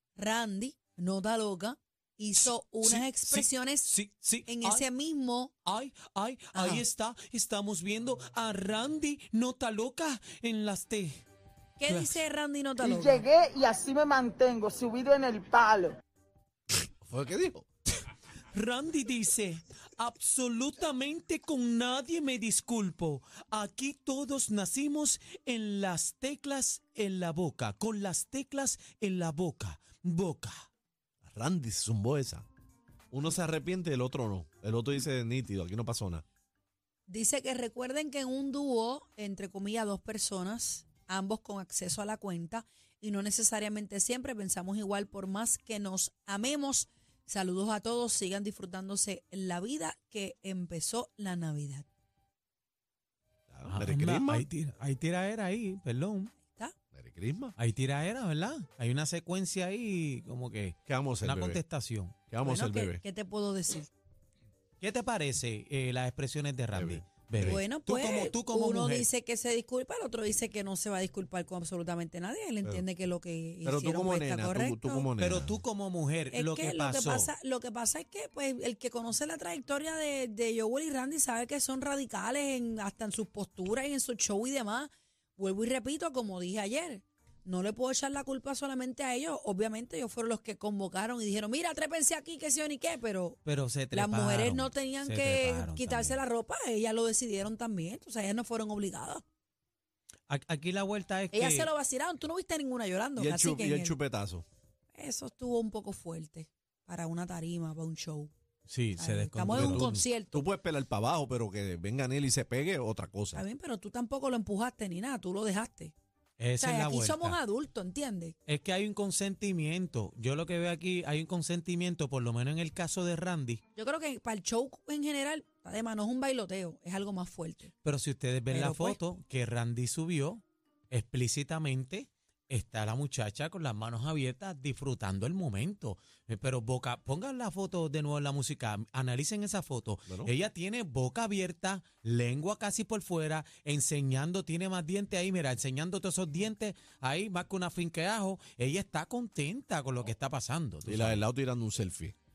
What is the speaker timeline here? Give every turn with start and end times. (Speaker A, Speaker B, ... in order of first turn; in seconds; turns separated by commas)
Speaker A: 0.2-4.0, Speaker B: 2.4-4.9, Speaker A: 4.5-5.5, Speaker B: 5.7-11.2, Speaker A: 6.5-6.9, Speaker A: 11.8-13.3, Speaker B: 11.9-12.2, Speaker C: 12.8-16.0, Speaker D: 16.8-17.6, Speaker B: 18.5-30.7, Speaker D: 31.2-32.5, Speaker D: 33.1-36.2, Speaker A: 37.1-51.9, Speaker D: 53.5-54.5, Speaker B: 53.6-56.4, Speaker A: 56.5-56.8, Speaker D: 56.9-57.6, Speaker B: 57.6-62.2, Speaker D: 60.9-61.6, Speaker D: 62.3-63.0, Speaker A: 62.4-63.9, Speaker B: 64.8-69.1, Speaker D: 66.7-67.7, Speaker A: 67.4-75.1, Speaker D: 73.6-75.6, Speaker B: 75.2-77.3, Speaker A: 76.3-93.4, Speaker B: 93.5-96.2, Speaker A: 93.9-99.2, Speaker B: 100.3-101.7, Speaker A: 101.3-104.0, Speaker D: 103.2-104.5, Speaker A: 104.9-108.3, Speaker B: 108.7-109.9, Speaker A: 109.0-110.4, Speaker D: 109.5-113.4, Speaker A: 113.3-116.0, Speaker B: 116.4-117.4, Speaker A: 116.6-118.3, Speaker B: 118.5-123.6, Speaker A: 123.8-127.7, Speaker B: 127.8-151.2, Speaker A: 128.5-129.0, Speaker D: 150.8-152.1